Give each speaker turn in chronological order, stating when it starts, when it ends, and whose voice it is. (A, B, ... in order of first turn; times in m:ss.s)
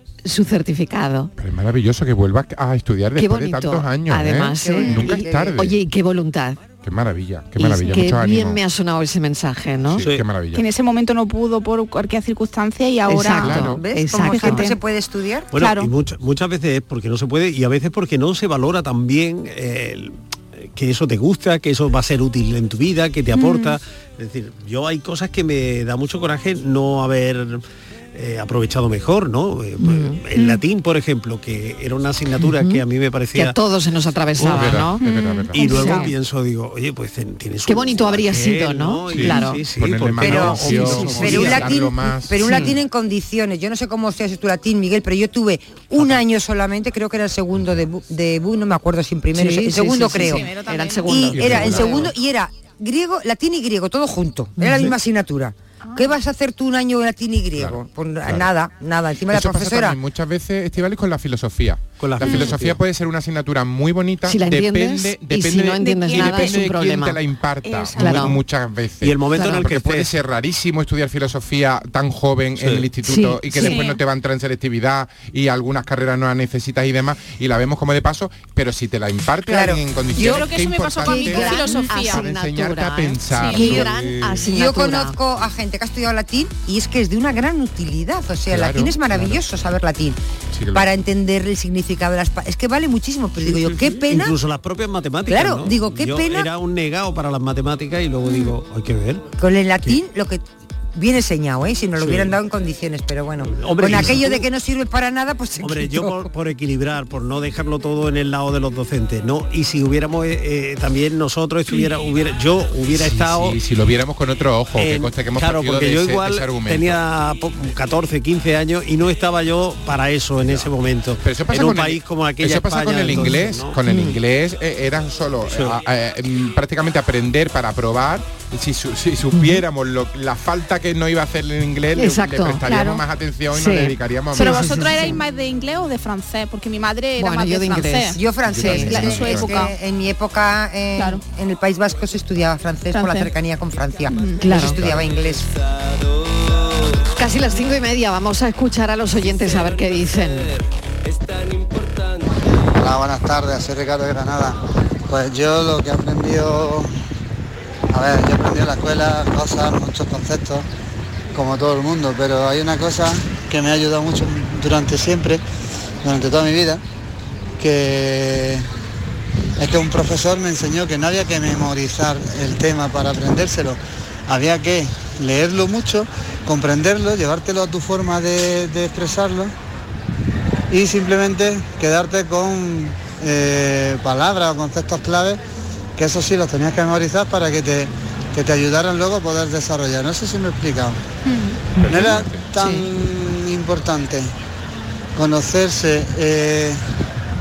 0:00.2-0:01.3 A
0:01.4-0:05.8 B
0:03.2-0:06.6 A
0:04.6-0:05.5 C
0:06.8-0:08.6 B
0:07.6-0:10.0 A
0:09.9-0:10.6 B
0:10.5-0:14.8 D
0:13.1-0:14.7 A
0:13.3-0:13.8 B
0:13.8-0:15.5 C
0:15.5-0:27.6 E
0:15.5-0:15.9 D
0:23.3-0:23.8 D
0:28.1-0:33.6 E
0:29.8-0:30.2 A
0:30.3-0:30.6 D
0:32.4-0:32.8 A
0:33.3-0:35.0 A
0:34.4-0:35.8 B
0:35.0-0:36.0 D
0:35.5-0:41.8 E
0:35.6-0:36.1 A
0:37.6-0:39.6 A
0:39.1-0:42.7 B
0:40.2-0:50.5 C
0:40.9-0:41.5 A
0:42.4-0:42.7 A
0:49.3-0:52.1 A
0:50.2-0:51.7 D
0:51.0-1:00.0 C
0:51.3-0:52.1 B
0:54.6-0:54.9 A
0:55.8-0:56.1 D
0:57.6-0:58.5 B
0:59.3-1:23.9 B
1:02.0-1:02.8 E
1:02.2-1:02.6 D
1:04.2-1:07.2 A
1:05.8-1:06.6 D
1:07.6-1:08.3 D
1:08.0-1:08.4 A
1:09.0-1:10.1 E
1:09.4-1:09.6 A
1:12.6-1:12.8 E
1:13.0-1:13.8 A
1:13.6-1:14.0 D
1:19.5-1:19.8 C
1:20.1-1:22.2 D
1:20.2-1:20.4 A
1:21.0-1:25.2 A
1:23.3-1:23.8 D
1:24.4-1:30.2 C
1:28.5-1:29.4 B
1:30.5-1:30.9 B
1:30.7-1:34.4 C
1:33.4-1:39.3 E
1:35.3-1:36.5 C
1:39.4-1:40.4 C
1:40.9-1:46.2 C
1:42.0-1:42.4 E
1:43.5-1:44.5 E
1:45.6-1:53.6 E
1:52.9-1:57.0 B
1:54.8-2:03.8 E
2:01.2-2:15.0 B
2:03.9-2:04.2 A
2:05.5-2:05.8 E
2:09.3-2:09.6 A
2:12.0-2:13.0 A
2:13.5-2:15.2 A
2:14.3-2:19.7 D
2:17.2-2:19.2 A
2:18.1-2:25.5 C
2:18.5-2:19.7 B
2:21.0-2:21.2 D
2:22.9-2:23.3 D
2:24.1-2:24.4 D
2:24.4-2:24.8 A
2:24.6-2:25.0 B
2:27.1-2:30.5 A
2:32.7-2:36.9 F
2:37.9-2:40.6 F
2:41.3-2:45.4 F
2:46.0-2:46.8 F
2:47.6-2:48.6 F
2:49.6-2:59.5 F
3:00.7-3:05.4 F
3:06.0-3:11.0 F
3:11.2-3:11.6 D
3:11.8-3:14.3 F
3:11.8-3:12.5 B
3:12.6-3:12.8 A
3:15.2-3:16.8 F